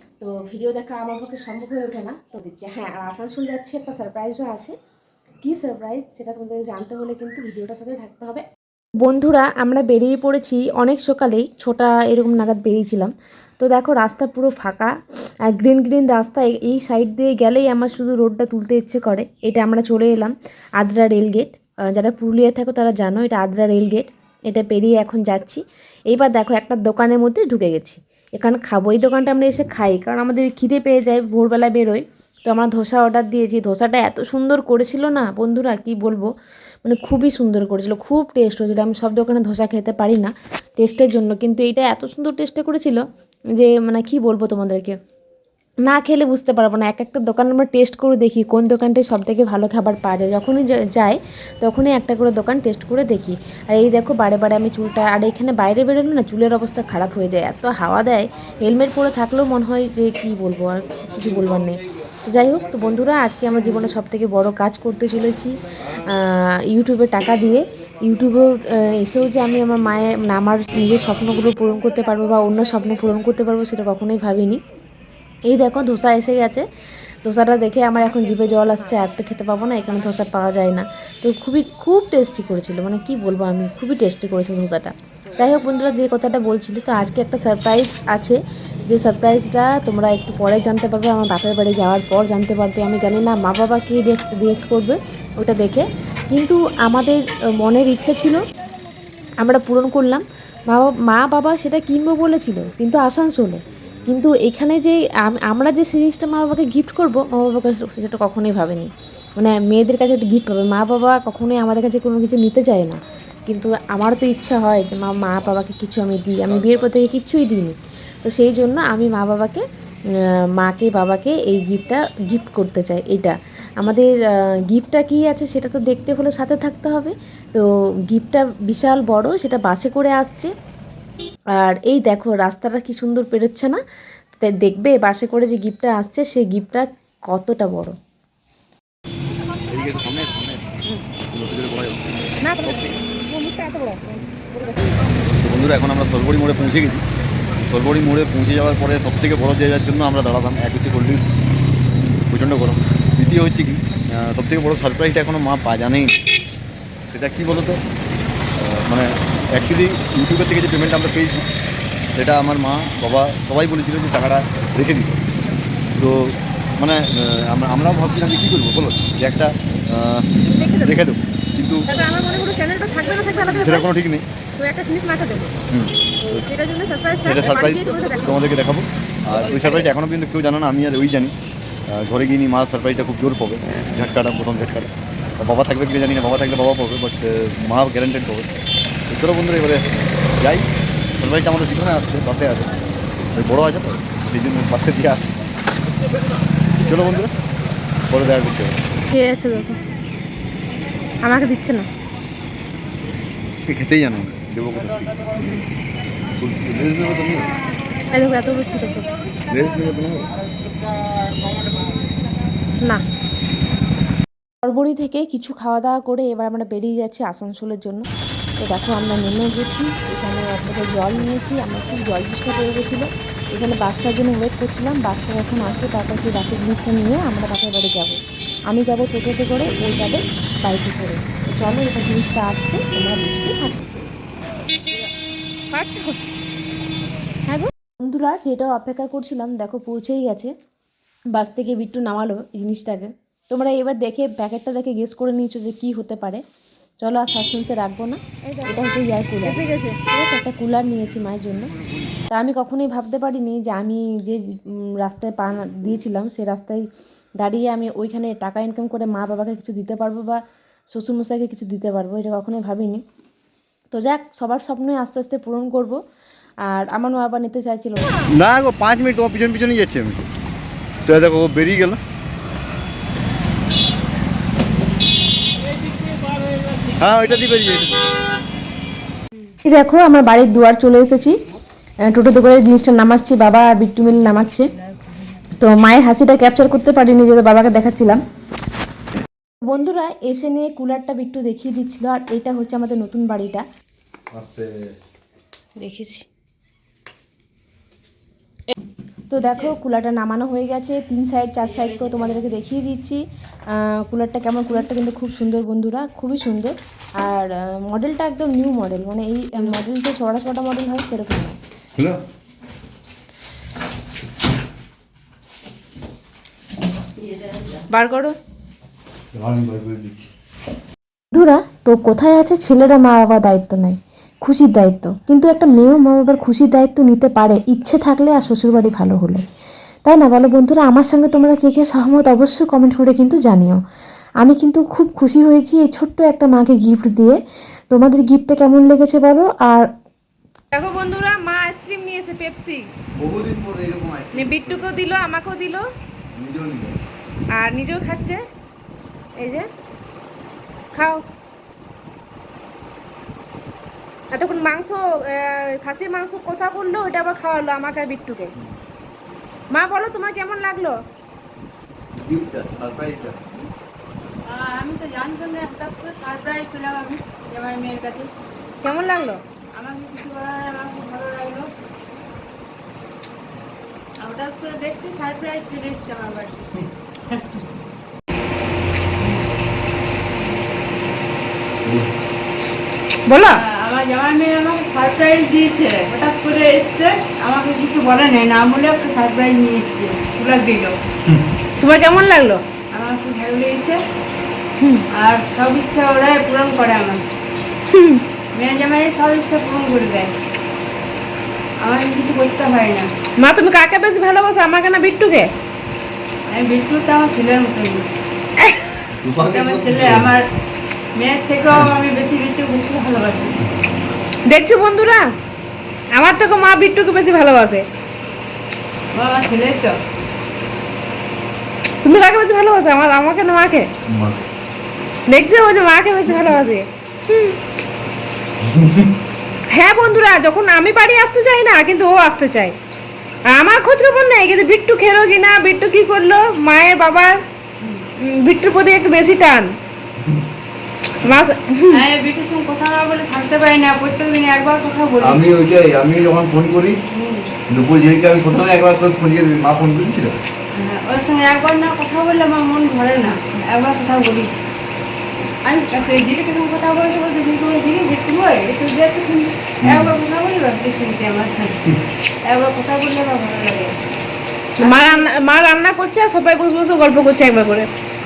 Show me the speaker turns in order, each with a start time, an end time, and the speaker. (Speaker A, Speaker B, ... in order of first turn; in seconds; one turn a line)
Speaker A: 0.2-4.8
Speaker A: 5.4-8.4
Speaker A: 9.0-14.9
Speaker A: 15.5-36.3
Speaker A: 36.8-43.0
Speaker A: 43.6-45.0
Speaker A: 45.9-65.5
Speaker A: 66.1-74.6
Speaker A: 75.5-76.7
Speaker A: 77.2-98.4
Speaker B: 78.1-78.8
Speaker A: 99.4-119.6
Speaker A: 120.6-124.1
Speaker A: 124.7-130.5
Speaker A: 131.6-133.8
Speaker A: 134.4-137.9
Speaker C: 139.7-140.8
Speaker C: 141.3-142.0
Speaker B: 142.4-145.1
Speaker C: 142.6-143.0
Speaker C: 145.4-147.1
Speaker C: 147.6-151.2
Speaker C: 152.3-156.1
Speaker C: 157.1-157.8
Speaker C: 158.6-161.5
Speaker C: 162.2-165.2
Speaker C: 166.0-170.3
Speaker B: 170.5-170.9
Speaker C: 170.8-171.9
Speaker B: 171.9-173.9
Speaker C: 173.3-174.3
Speaker B: 174.6-175.6
Speaker C: 175.7-176.5
Speaker B: 176.2-178.3
Speaker C: 177.2-181.3
Speaker B: 179.6-179.8
Speaker C: 181.9-188.5
Speaker C: 189.1-189.8
Speaker C: 190.4-190.7
Speaker C: 191.2-192.7
Speaker C: 193.3-195.4
Speaker C: 196.8-197.3
Speaker C: 198.1-198.8
Speaker B: 199.1-199.8
Speaker B: 201.2-201.9
Speaker C: 203.7-205.6
Speaker C: 206.4-207.5
Speaker D: 208.1-209.6
Speaker B: 208.1-209.1
Speaker C: 209.5-210.3
Speaker A: 214.6-218.1
Speaker A: 218.6-234.1
Speaker B: 235.7-236.2
Speaker A: 238.0-240.5
Speaker A: 241.3-246.4
Speaker A: 247.0-251.7
Speaker B: 248.4-248.8
Speaker B: 249.4-250.0
Speaker A: 252.3-254.4
Speaker A: 255.0-256.9
Speaker A: 257.4-260.4
Speaker A: 260.9-263.0
Speaker A: 263.9-266.0
Speaker A: 266.7-268.2
Speaker C: 268.3-270.3
Speaker C: 271.1-272.0
Speaker C: 276.9-278.0
Speaker A: 279.6-281.4
Speaker A: 282.1-284.7
Speaker A: 285.6-288.2
Speaker A: 289.6-293.6
Speaker C: 294.3-294.9
Speaker A: 295.8-296.3
Speaker A: 299.3-311.6
Speaker B: 317.9-318.4
Speaker C: 319.3-320.3
Speaker A: 321.3-329.4
Speaker A: 330.1-333.8
Speaker A: 334.4-337.4
Speaker A: 337.9-339.9
Speaker B: 340.7-342.9
Speaker C: 343.2-345.1
Speaker B: 344.3-345.9
Speaker C: 346.4-347.0
Speaker B: 347.5-348.4
Speaker B: 349.4-349.7
Speaker B: 350.9-351.2
Speaker B: 354.3-358.5
Speaker B: 359.7-361.0
Speaker C: 362.1-363.4
Speaker D: 364.5-368.3
Speaker B: 368.8-369.4
Speaker D: 369.8-371.7
Speaker D: 374.2-376.8
Speaker D: 377.3-377.6
Speaker C: 381.8-382.1
Speaker B: 383.3-383.6
Speaker D: 383.5-391.0
Speaker B: 391.8-392.6
Speaker D: 392.9-394.0
Speaker B: 394.8-395.0
Speaker D: 395.1-397.3
Speaker B: 397.9-398.2
Speaker D: 398.5-400.3
Speaker D: 401.8-403.1
Speaker B: 403.4-405.5
Speaker D: 406.5-408.1
Speaker B: 408.6-408.9
Speaker C: 409.1-410.3
Speaker D: 409.4-410.5
Speaker D: 411.1-413.6
Speaker B: 414.5-415.3
Speaker B: 416.1-417.9
Speaker D: 419.1-419.9
Speaker B: 422.0-423.9
Speaker C: 424.1-424.5
Speaker B: 425.3-427.6
Speaker D: 426.3-426.6
Speaker C: 428.6-429.1
Speaker B: 429.7-432.8
Speaker B: 433.5-437.4
Speaker B: 438.2-439.8
Speaker B: 441.2-442.0
Speaker D: 441.9-445.4
Speaker C: 445.2-447.0
Speaker D: 447.1-447.5
Speaker C: 447.7-450.4
Speaker D: 450.7-454.5
Speaker D: 455.6-461.8
Speaker C: 459.8-460.2
Speaker D: 462.4-464.0
Speaker B: 464.8-467.9
Speaker D: 464.8-465.3